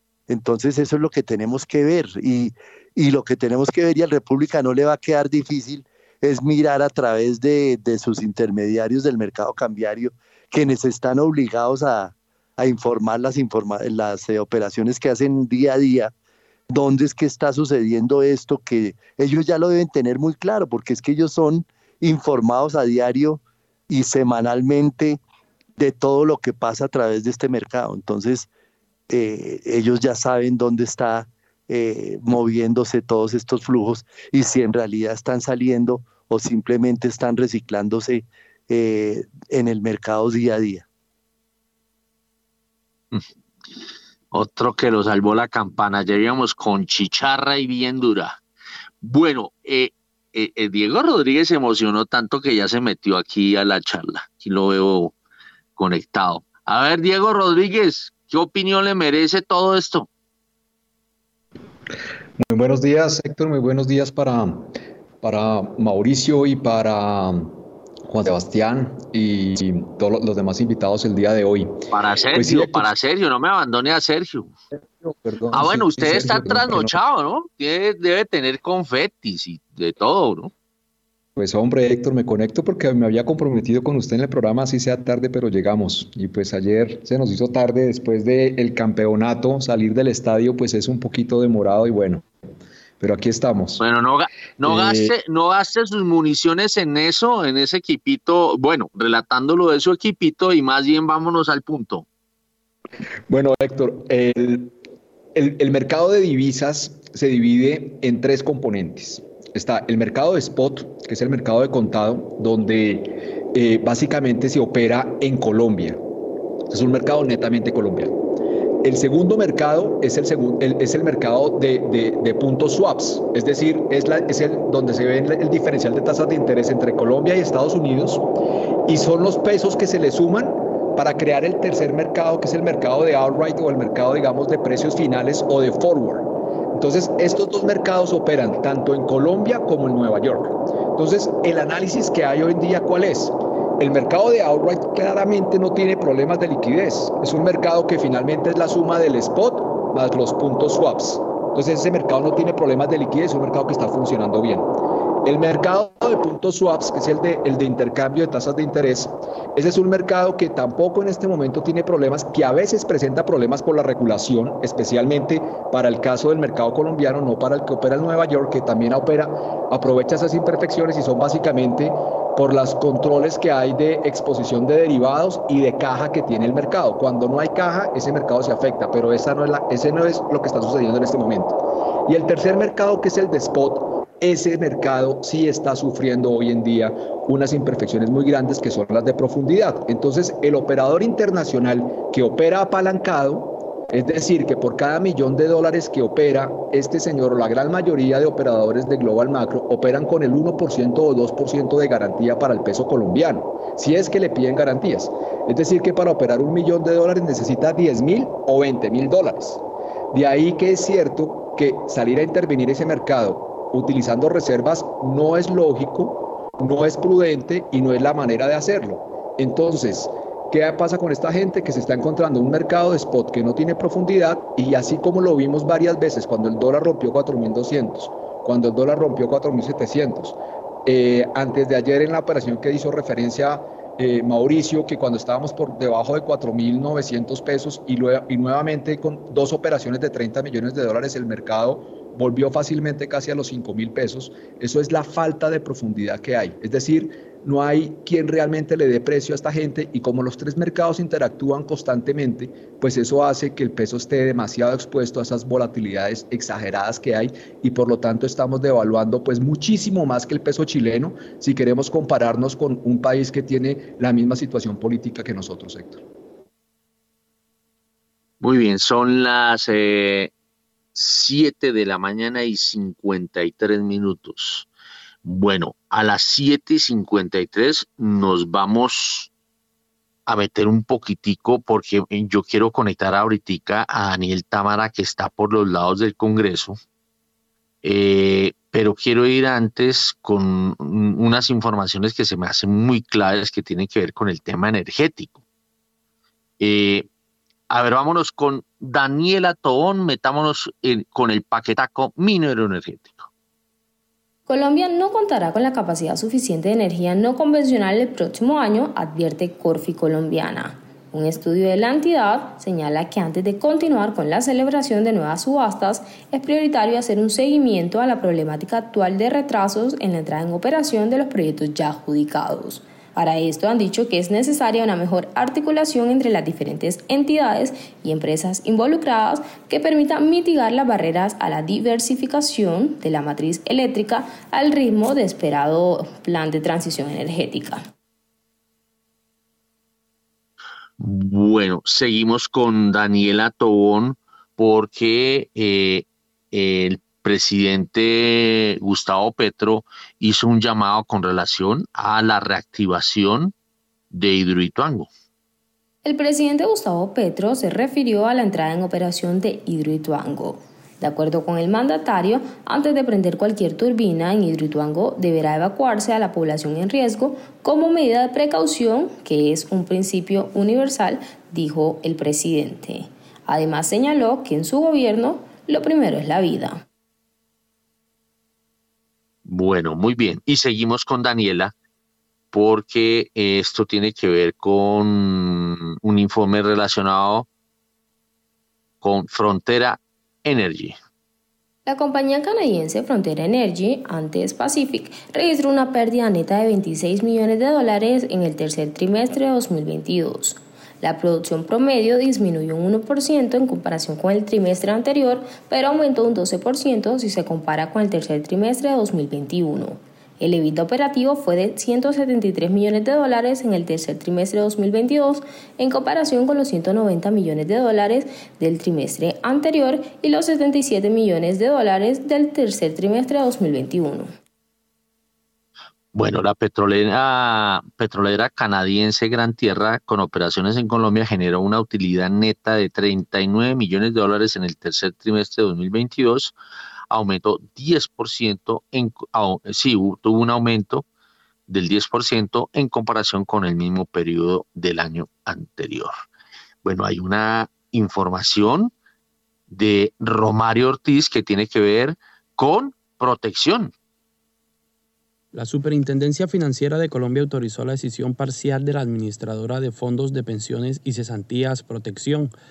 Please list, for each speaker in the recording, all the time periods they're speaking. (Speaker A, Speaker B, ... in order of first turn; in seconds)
Speaker A: 0.3-16.1, 16.7-25.2, 25.8-28.5, 29.1-40.8
Speaker B: 44.3-48.4, 49.0-55.1, 55.8-60.1, 71.9-74.5, 75.5-80.5, 93.8-102.1, 268.4-270.3, 270.9-274.7, 275.2-279.3, 280.3-286.8, 287.8-295.4, 296.6-297.1, 297.7-303.3, 341.0-353.5, 354.1-355.1, 379.5-381.7, 382.5-387.5, 389.0-390.9, 426.1-436.6, 437.1-441.1, 441.7-446.1, 446.8-448.9, 449.7-453.9
Speaker C: 62.4-71.8, 72.3-72.9, 74.8-77.0, 81.4-92.3, 93.0-93.8, 94.6-95.1, 103.3-104.8, 105.3-116.0, 116.7-118.2, 118.8-128.2, 128.9-154.7, 155.2-209.6, 210.1-266.0
Speaker D: 304.5-337.9, 356.1-376.8, 391.9-424.3
Speaker E: 455.5-462.5